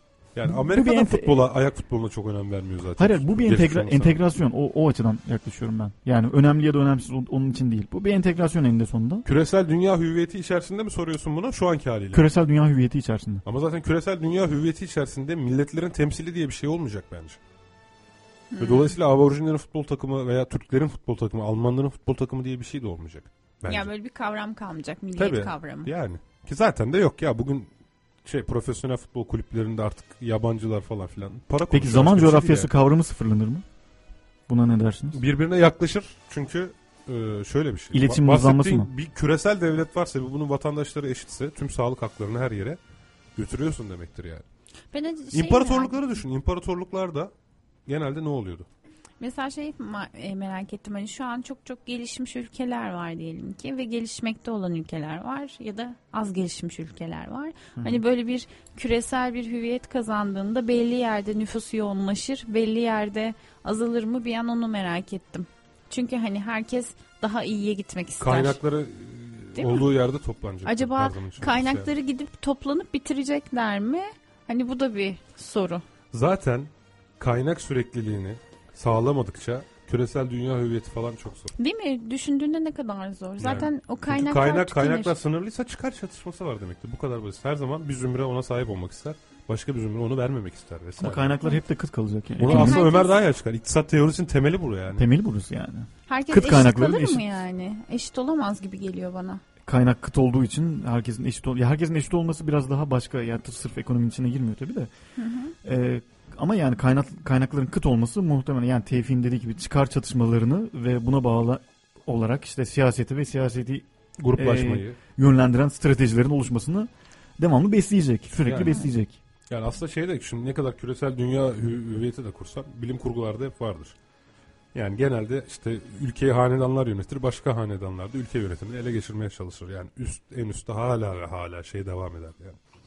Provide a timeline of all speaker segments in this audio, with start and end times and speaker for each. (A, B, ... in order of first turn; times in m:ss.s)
0:00.3-0:04.2 A
0:00.5-0:01.4 B
0:03.0-0:09.2 B
0:09.2-0:12.3 A
0:12.1-0:13.4 B
0:13.4-0:17.4 A
0:18.5-0:19.0 C
0:18.6-0:23.9 A
0:23.7-0:25.9 C
0:25.2-0:27.7 A
0:28.2-0:32.7 A
0:31.7-0:33.6 B
0:34.5-0:35.2 B
0:35.1-0:42.8 A
0:37.9-0:38.9 B
0:43.4-0:44.4 A
0:44.9-0:46.0 C
0:45.3-0:47.3 A
0:47.8-0:48.7 A
0:49.2-1:08.6 C
1:08.2-1:11.9 A
1:09.6-1:09.9 C
1:10.6-1:15.8 C
1:16.1-1:21.5 A
1:21.6-1:25.1 C
1:23.4-1:31.3 A
1:31.0-1:32.8 B
1:32.4-1:35.0 A
1:32.4-1:33.2 C
1:35.0-1:37.2 B
1:36.1-1:39.4 C
1:39.6-1:44.9 B
1:45.2-1:45.5 C
1:45.6-1:59.2 B
1:54.2-1:55.0 A
1:58.4-1:58.8 A
1:59.5-2:04.0 A
2:04.7-2:12.6 A